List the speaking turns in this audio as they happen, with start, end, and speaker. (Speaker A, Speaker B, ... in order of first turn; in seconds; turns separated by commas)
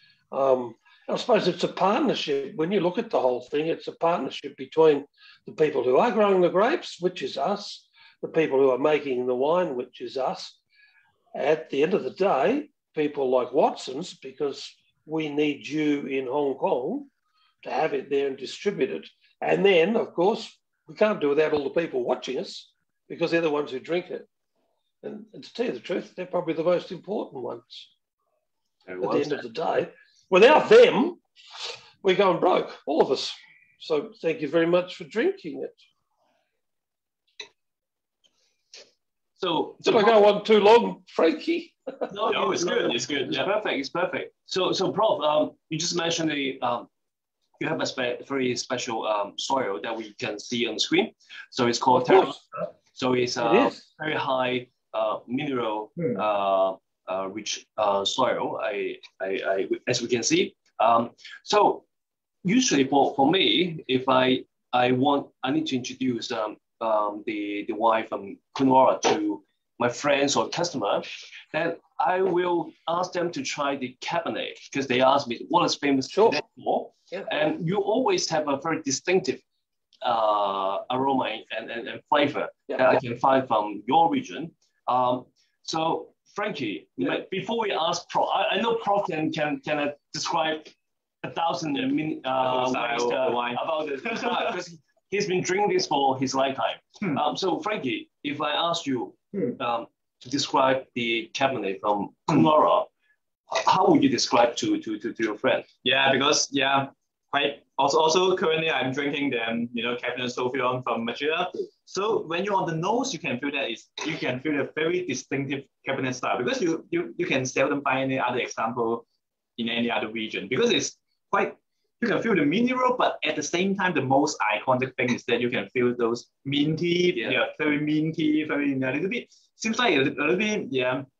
Speaker A: 0.3-10.6, Speaker A: 11.3-17.1, Speaker A: 17.6-24.3, Speaker A: 25.0-27.9, Speaker B: 28.9-29.4, Speaker A: 29.0-35.8, Speaker B: 39.4-40.2, Speaker A: 39.8-42.1, Speaker B: 42.1-46.9, Speaker C: 42.2-43.5, Speaker B: 47.6-61.8, Speaker A: 52.0-52.4, Speaker A: 53.4-53.8, Speaker B: 62.4-79.4, Speaker A: 76.1-76.4, Speaker B: 80.0-102.9, Speaker C: 92.4-94.5, Speaker B: 103.5-105.7, Speaker C: 105.8-119.0, Speaker C: 119.6-131.1